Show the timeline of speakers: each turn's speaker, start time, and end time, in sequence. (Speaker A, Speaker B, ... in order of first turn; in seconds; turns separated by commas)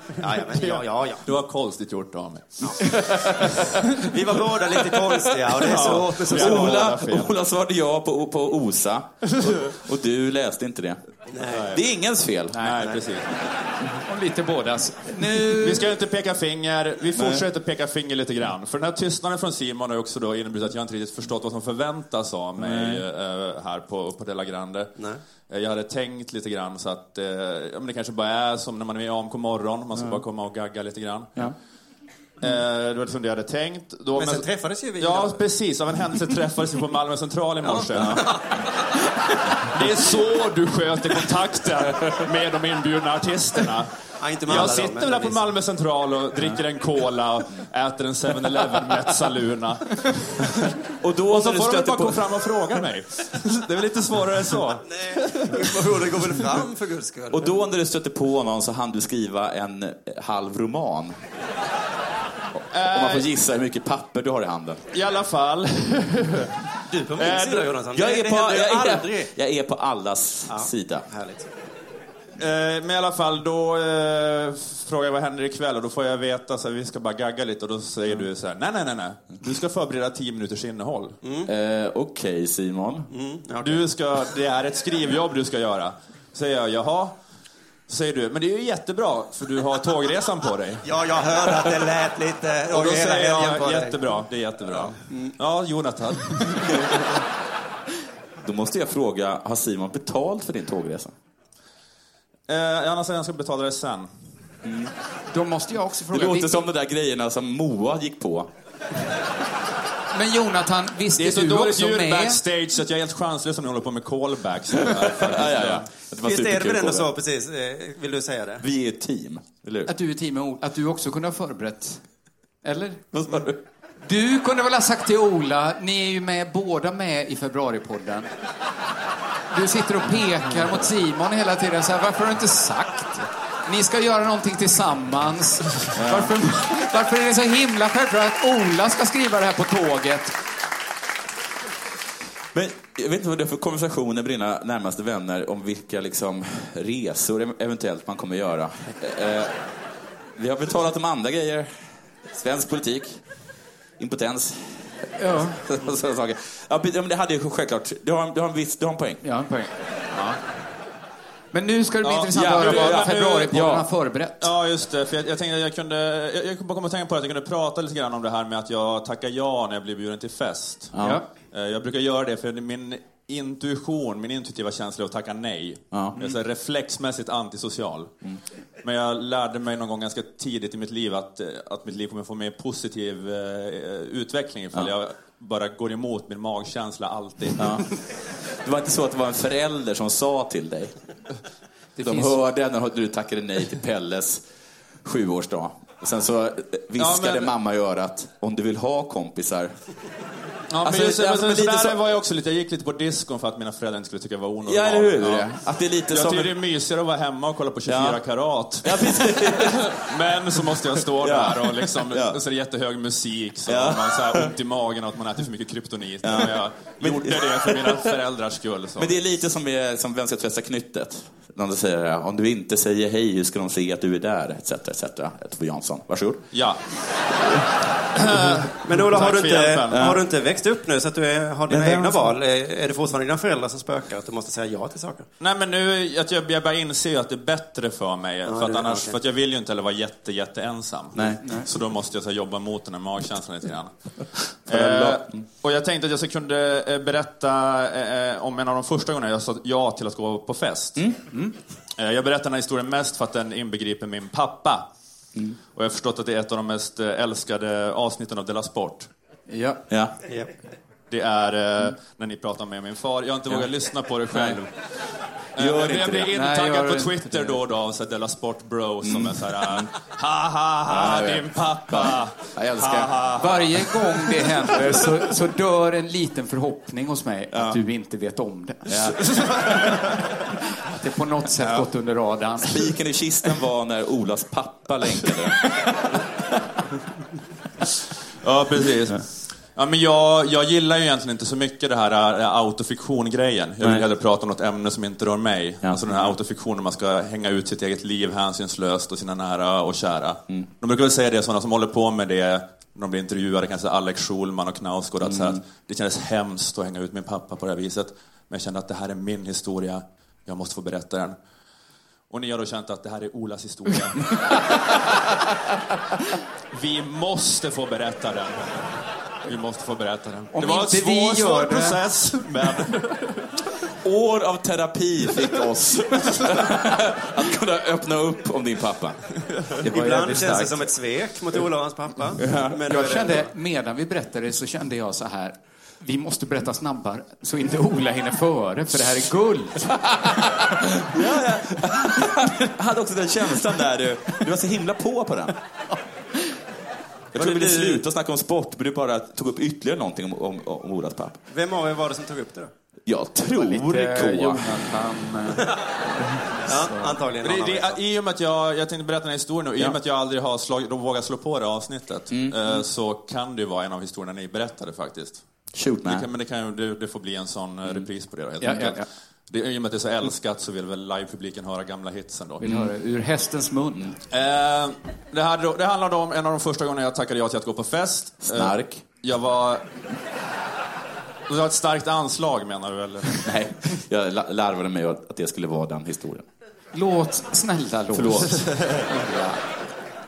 Speaker A: 0.2-1.2, Speaker B: 0.6-4.0, Speaker A: 4.0-6.8, Speaker B: 5.6-7.3, Speaker C: 5.6-11.0, Speaker A: 11.3-11.8, Speaker B: 11.5-11.8, Speaker C: 11.7-12.7, Speaker B: 12.5-13.3, Speaker D: 12.6-12.8, Speaker D: 14.1-15.9, Speaker B: 15.5-24.9, Speaker C: 17.2-17.4, Speaker C: 22.6-23.0, Speaker B: 25.5-31.5, Speaker B: 32.4-34.5, Speaker A: 34.2-35.4, Speaker B: 35.0-38.4, Speaker A: 37.8-38.4, Speaker C: 38.0-38.3, Speaker B: 39.7-43.9, Speaker A: 44.2-45.4, Speaker B: 44.5-50.7, Speaker C: 51.0-52.2, Speaker B: 51.3-55.6, Speaker A: 54.9-57.5, Speaker C: 57.3-61.2, Speaker B: 62.7-63.3, Speaker C: 62.9-64.8, Speaker B: 64.9-66.5, Speaker A: 66.9-69.3, Speaker B: 67.2-67.7, Speaker C: 67.9-71.0, Speaker A: 70.5-71.5, Speaker B: 72.4-81.2, Speaker A: 81.2-81.5, Speaker C: 81.5-83.1, Speaker A: 83.1-83.8, Speaker B: 83.6-87.1, Speaker B: 87.9-90.8, Speaker A: 90.8-94.0, Speaker B: 92.7-97.0, Speaker C: 98.4-101.1, Speaker B: 102.5-104.1, Speaker C: 104.6-104.9, Speaker D: 105.3-106.5, Speaker C: 106.1-108.5, Speaker D: 110.1-112.4, Speaker B: 111.2-115.8, Speaker C: 114.8-117.1, Speaker A: 116.2-118.6, Speaker C: 118.6-119.9, Speaker D: 119.9-122.0, Speaker D: 122.6-123.0, Speaker C: 123.1-123.6, Speaker D: 124.0-128.3, Speaker D: 129.5-140.4, Speaker C: 136.0-136.3, Speaker C: 142.5-149.6, Speaker C: 150.4-151.7, Speaker C: 152.3-153.2, Speaker C: 154.0-159.2, Speaker D: 155.2-155.6, Speaker D: 159.2-160.4, Speaker D: 161.5-164.5, Speaker B: 162.0-163.6, Speaker C: 162.3-163.8, Speaker B: 164.4-170.9, Speaker C: 170.9-171.2, Speaker D: 171.0-171.2, Speaker B: 171.5-178.1, Speaker C: 175.9-176.2, Speaker B: 178.8-187.7, Speaker C: 187.6-187.9, Speaker C: 188.6-190.9, Speaker D: 192.0-192.4, Speaker C: 192.0-194.4, Speaker C: 195.1-199.7, Speaker B: 197.0-197.5, Speaker B: 200.7-205.5, Speaker C: 200.8-202.0, Speaker C: 204.7-206.5, Speaker B: 206.1-219.1, Speaker C: 207.9-208.2, Speaker C: 208.8-210.0, Speaker C: 211.2-212.4, Speaker C: 213.7-214.5, Speaker C: 216.2-218.1, Speaker C: 219.0-226.4, Speaker B: 226.5-226.8, Speaker B: 228.2-230.2, Speaker A: 228.8-235.3, Speaker C: 229.9-230.2, Speaker C: 231.7-232.3, Speaker B: 235.4-243.9, Speaker A: 238.5-239.2, Speaker C: 241.2-241.4, Speaker D: 241.4-241.7, Speaker B: 244.7-251.1, Speaker C: 244.7-245.4, Speaker B: 252.0-254.8, Speaker B: 255.7-259.1, Speaker D: 259.5-259.8, Speaker B: 261.1-264.7, Speaker C: 264.3-264.6, Speaker B: 265.6-273.7, Speaker C: 265.6-266.3, Speaker D: 266.3-267.6, Speaker C: 269.0-269.9, Speaker C: 270.9-273.3, Speaker D: 273.4-279.2, Speaker C: 277.5-277.8, Speaker C: 278.9-279.2, Speaker D: 279.7-280.0, Speaker D: 280.9-282.8, Speaker C: 282.6-285.6, Speaker B: 288.4-311.4, Speaker C: 295.8-296.3, Speaker C: 305.2-305.6, Speaker B: 312.3-314.4, Speaker B: 316.7-318.7, Speaker B: 319.5-323.5, Speaker D: 320.5-322.0, Speaker C: 324.0-329.2, Speaker C: 329.8-330.3, Speaker A: 329.9-333.5, Speaker D: 329.9-330.8, Speaker C: 332.4-332.8, Speaker D: 332.9-340.4, Speaker C: 341.0-345.6, Speaker C: 347.3-351.4, Speaker A: 347.4-348.0, Speaker A: 351.5-352.7, Speaker C: 353.1-354.7, Speaker D: 353.5-357.2, Speaker A: 356.7-358.0, Speaker B: 357.4-365.4, Speaker C: 365.7-366.3, Speaker B: 366.1-372.6, Speaker D: 368.6-369.1, Speaker D: 372.6-374.2, Speaker C: 372.6-372.9, Speaker B: 374.3-379.9, Speaker C: 378.4-379.0, Speaker B: 381.5-383.4, Speaker C: 383.4-386.5, Speaker D: 386.9-389.6, Speaker C: 388.1-388.7